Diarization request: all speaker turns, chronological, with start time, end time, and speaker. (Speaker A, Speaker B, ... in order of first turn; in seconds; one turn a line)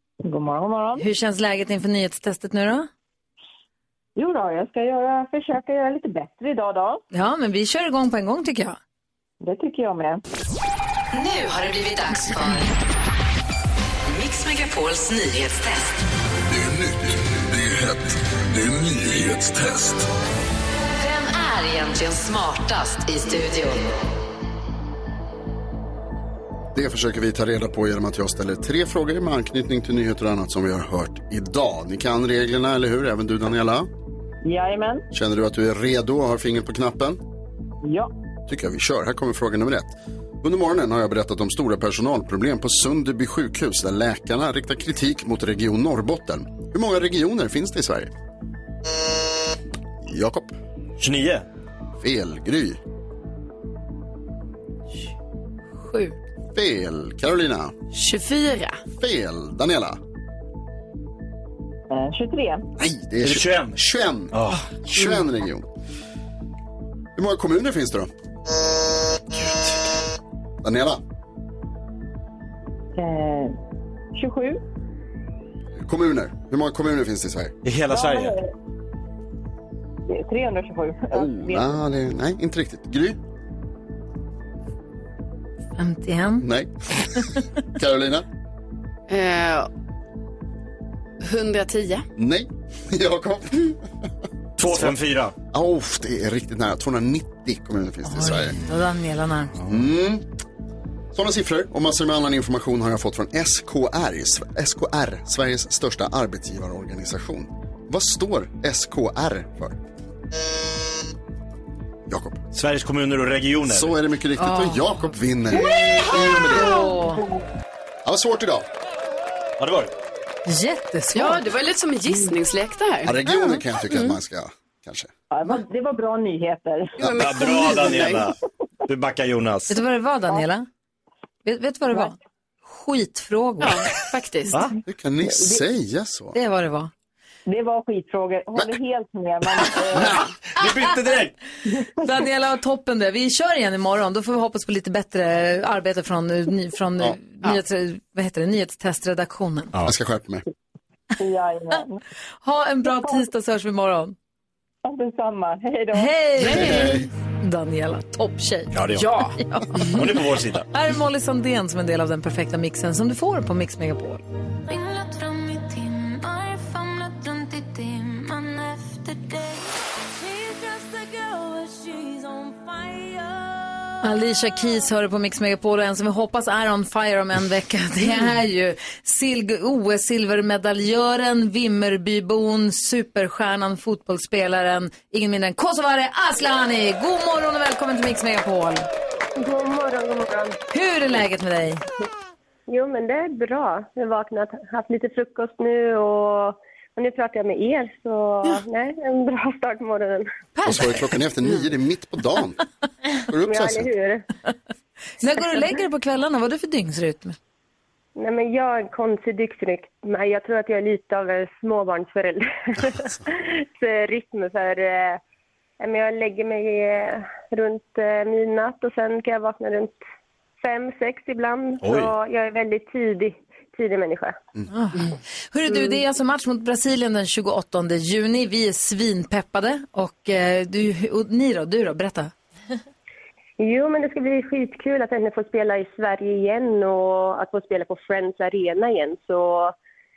Speaker A: 0.3-1.1
Speaker B: 1.0-2.9
Speaker A: 4.2-7.0
Speaker B: 7.1-8.8
Speaker A: 9.4-10.2
Speaker C: 11.1-12.7
Speaker C: 14.1-16.0
Speaker C: 20.9-23.9
Speaker D: 26.7-33.9
Speaker A: 34.4-35.0
Speaker D: 35.1-37.2
Speaker A: 37.8-38.1
Speaker D: 38.5-48.1
Speaker D: 50.0-50.6
Speaker E: 51.0-51.5
Speaker D: 52.0-52.8
Speaker B: 55.8-56.2
Speaker D: 56.5-57.7
Speaker F: 57.9-58.8
Speaker D: 59.0-60.0
Speaker A: 61.9-62.7
Speaker D: 62.8-65.7
Speaker E: 63.2-63.8
Speaker E: 64.3-64.7
Speaker D: 67.2-68.1
Speaker E: 69.3-69.8
Speaker D: 70.6-71.0
Speaker A: 73.0-73.6
Speaker A: 74.1-74.6
Speaker D: 75.8-77.6
Speaker E: 77.6-78.4
Speaker A: 77.9-78.4
Speaker A: 80.1-81.7
Speaker D: 81.1-83.2
Speaker B: 85.8-86.5
Speaker D: 86.4-86.7
Speaker D: 87.8-88.3
Speaker F: 89.1-89.7
Speaker F: 91.2-92.1
Speaker D: 92.2-93.8
Speaker E: 94.6-95.3
Speaker D: 94.7-95.0
Speaker D: 95.5-98.6
Speaker B: 98.0-99.5
Speaker D: 99.7-100.3
Speaker D: 101.1-109.8
Speaker D: 112.1-112.4
Speaker E: 112.5-113.9
Speaker D: 113.7-116.8
Speaker B: 114.4-115.1
Speaker B: 115.6-117.2
Speaker A: 117.1-117.4
Speaker D: 118.0-118.7
Speaker E: 119.6-119.9
Speaker B: 120.5-121.5
Speaker F: 121.1-123.2
Speaker D: 123.0-125.1
Speaker A: 125.3-127.0
Speaker F: 127.0-128.2
Speaker E: 127.1-128.4
Speaker E: 128.9-129.8
Speaker B: 129.7-130.7
Speaker B: 131.4-133.9
Speaker F: 133.6-134.6
Speaker D: 134.9-136.4
Speaker A: 135.2-135.6
Speaker B: 136.3-136.9
Speaker A: 137.5-140.2
Speaker E: 140.2-141.3
Speaker B: 142.0-149.7
Speaker D: 149.8-150.4
Speaker A: 151.2-152.0
Speaker B: 152.4-154.2
Speaker A: 152.9-153.2
Speaker A: 154.8-156.6
Speaker B: 155.9-158.8
Speaker F: 156.5-156.8
Speaker D: 156.5-157.1
Speaker E: 158.7-159.1
Speaker F: 158.9-159.9
Speaker B: 159.4-160.0
Speaker E: 159.9-160.7
Speaker B: 160.7-164.2
Speaker G: 164.7-174.1
Speaker B: 174.0-188.9
Speaker H: 189.4-190.6
Speaker B: 190.7-191.8
Speaker H: 192.7-200.3
Speaker D: 200.7-202.6
Speaker D: 203.3-203.9
Speaker H: 203.4-204.2
Speaker B: 205.2-207.4
Speaker H: 208.2-215.2
Speaker H: 215.8-220.0
Speaker H: 220.6-224.4
Speaker E: 221.8-222.1
Speaker B: 224.7-232.3
Speaker H: 233.6-239.7